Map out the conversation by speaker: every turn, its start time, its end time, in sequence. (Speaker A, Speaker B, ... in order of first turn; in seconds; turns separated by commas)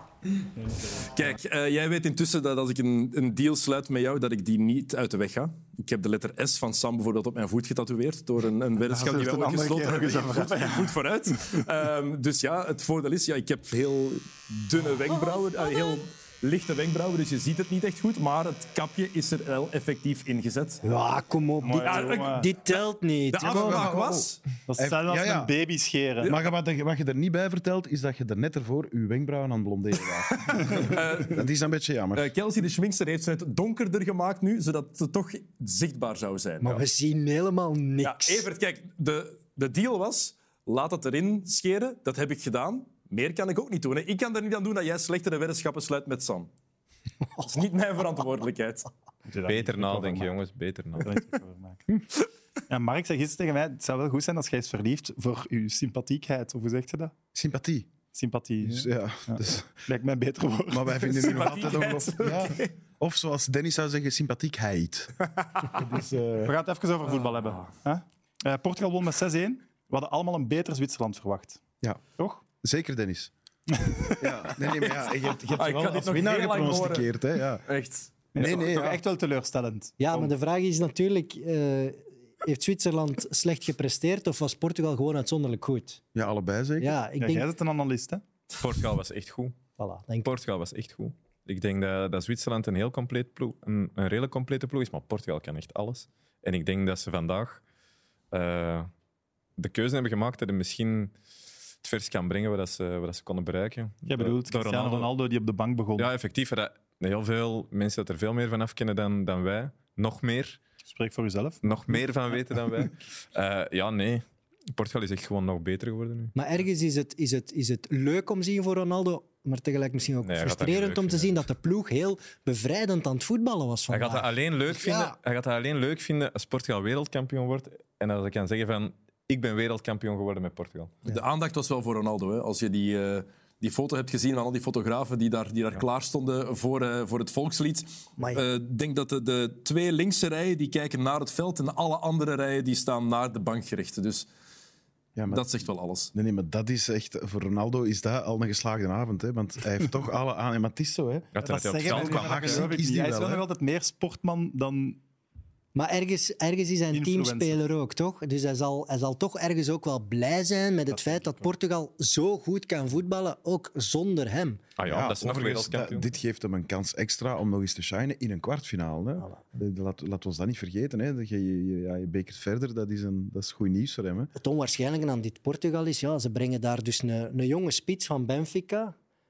Speaker A: 1.1-20.8, Speaker B: 8.9-11.6, Speaker C: 20.8-23.9, Speaker B: 21.6-22.5, Speaker A: 21.8-24.4, Speaker D: 23.4-25.5, Speaker B: 24.7-26.3, Speaker D: 26.2-32.3, Speaker B: 30.6-30.8, Speaker A: 30.8-31.5, Speaker A: 32.1-36.8, Speaker C: 36.6-38.5, Speaker A: 38.0-46.5, Speaker A: 47.4-48.9, Speaker B: 49.3-50.4, Speaker E: 49.5-51.1, Speaker B: 51.0-52.0, Speaker B: 52.7-57.1, Speaker D: 57.3-57.9, Speaker B: 58.1-61.9, Speaker D: 58.6-59.7, Speaker D: 60.7-66.5, Speaker A: 61.2-62.7, Speaker B: 66.4-71.6, Speaker B: 72.2-72.4, Speaker D: 72.6-73.3, Speaker B: 73.8-74.3, Speaker D: 74.2-77.6, Speaker A: 74.6-78.1, Speaker B: 78.3-80.3, Speaker D: 78.4-79.0, Speaker C: 80.0-86.0, Speaker D: 86.1-87.0, Speaker C: 86.8-87.5, Speaker B: 87.2-88.2, Speaker E: 88.6-89.6, Speaker C: 89.8-90.3, Speaker E: 90.2-97.6, Speaker E: 98.3-98.9, Speaker E: 99.6-101.1, Speaker E: 101.8-105.1, Speaker B: 104.1-106.1, Speaker E: 106.0-110.6, Speaker B: 110.8-112.8, Speaker E: 111.6-116.3, Speaker C: 116.3-125.2, Speaker E: 120.2-121.4, Speaker E: 123.9-131.0, Speaker A: 131.1-144.3, Speaker C: 138.2-138.4, Speaker D: 145.2-145.5, Speaker A: 145.3-146.1, Speaker D: 146.1-151.3, Speaker E: 151.3-152.7, Speaker B: 151.4-155.0, Speaker D: 151.8-153.4, Speaker C: 155.8-164.6, Speaker B: 156.9-157.6, Speaker E: 164.8-166.1, Speaker D: 164.9-174.3, Speaker C: 174.4-178.9